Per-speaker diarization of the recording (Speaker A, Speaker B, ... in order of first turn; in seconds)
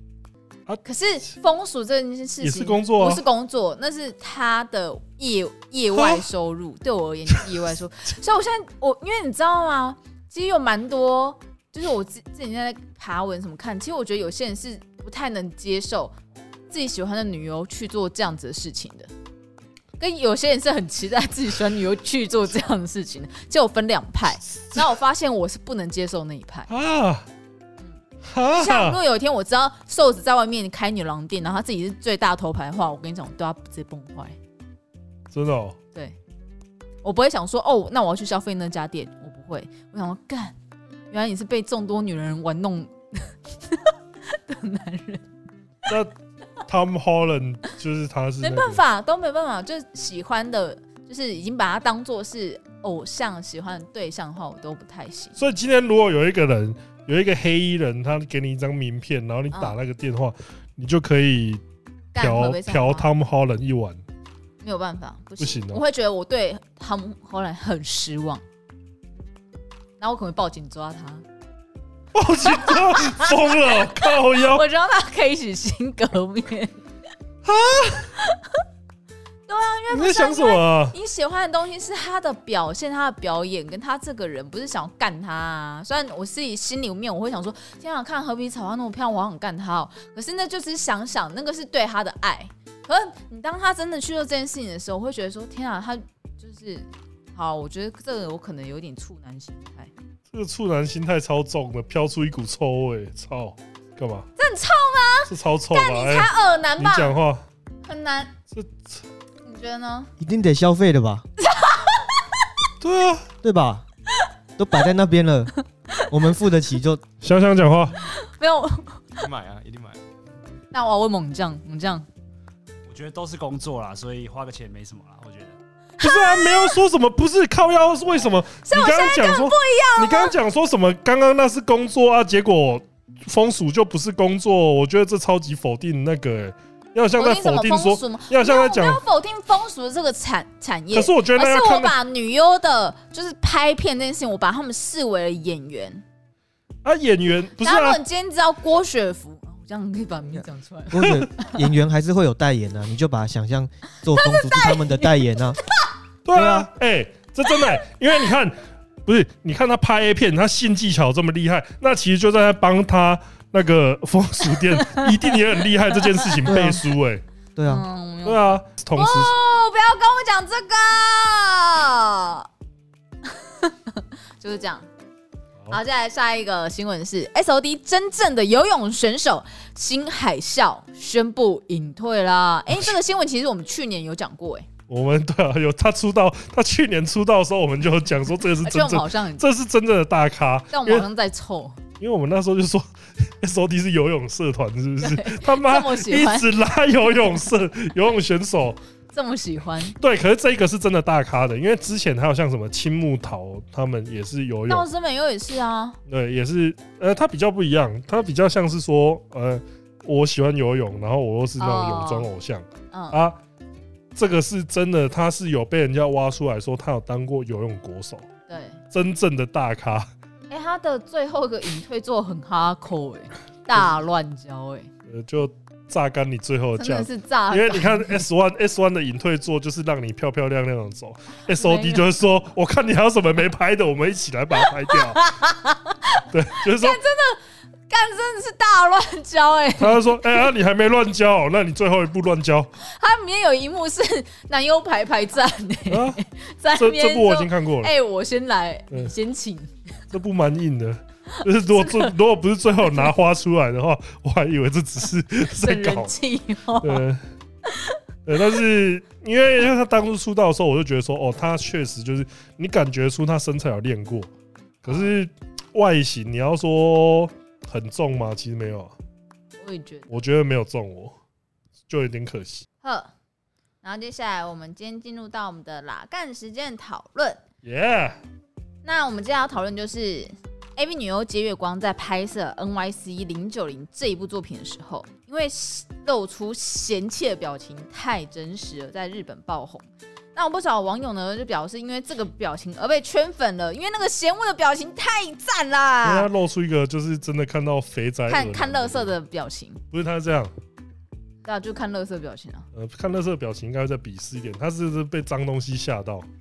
Speaker A: 0.8-16.1, 16.7-19.1, 20.0-26.7, 28.5-34.4, 37.0-40.5, 41.1-45.2, 48.4-55.4, 59.5-59.8, 62.1-63.1, 64.6-68.4, 70.0-71.2, 72.4-76.8, 78.2-78.6, 79.5-99.9, 104.4-107.2, 107.8-108.3, 109.4-110.1, 111.4-112.3, 118.0-119.3, 120.7-122.0, 126.0-126.8, 128.6-130.3, 137.2-146.0, 147.6-151.7, 154.2-155.3, 164.7-165.0, 167.7-172.5, 173.3-174.9, 175.7-184.7, 188.6-189.4, 190.7-191.8, 195.0-196.5, 199.1-199.9, 204.7-206.0, 211.6-212.3, 212.9-213.2, 218.5-218.8, 220.5-224.9, 226.8-228.2, 231.5-232.1, 234.9-236.0, 236.6-240.5, 242.8-249.7, 251.3-252.1, 252.8-253.1, 255.4-257.0, 257.6-258.0, 264.9-265.1, 269.6-270.1, 272.8-273.1, 273.8-277.4, 278.8-296.3, 298.3-299.8, 301.4-302.6
Speaker B: 2.4-3.2, 5.9-6.2, 26.7-27.3, 28.2-29.0, 35.3-35.8, 45.9-46.1, 46.6-48.8, 55.4-61.6, 62.2-64.0, 65.4-65.8, 72.1-74.6, 77.4-78.1, 79.9-80.9, 100.3-104.3, 105.3-107.4, 108.5-109.0, 112.8-113.3, 117.2-118.0, 126.0-139.0, 140.9-141.9, 146.8-148.0, 156.2-167.2, 168.2-169.3, 184.9-191.1, 192.0-198.8, 200.0-204.9, 206.1-213.4, 214.1-218.3, 218.9-220.1, 225.1-235.2, 236.3-237.0, 239.8-242.7, 245.9-246.2, 246.7-247.9, 250.1-256.1, 256.8-257.2, 258.2-264.3, 264.8-268.9, 270.1-271.1, 271.9-272.6, 277.6-278.2, 296.0-299.1, 299.9-300.5, 302.7-306.2
Speaker C: 110.2-111.2, 113.4-113.8, 114.6-115.5, 116.1-117.0, 150.9-155.6, 156.3-156.7, 166.4-166.8, 167.6-167.9
Speaker D: 119.2-120.0, 122.9-125.6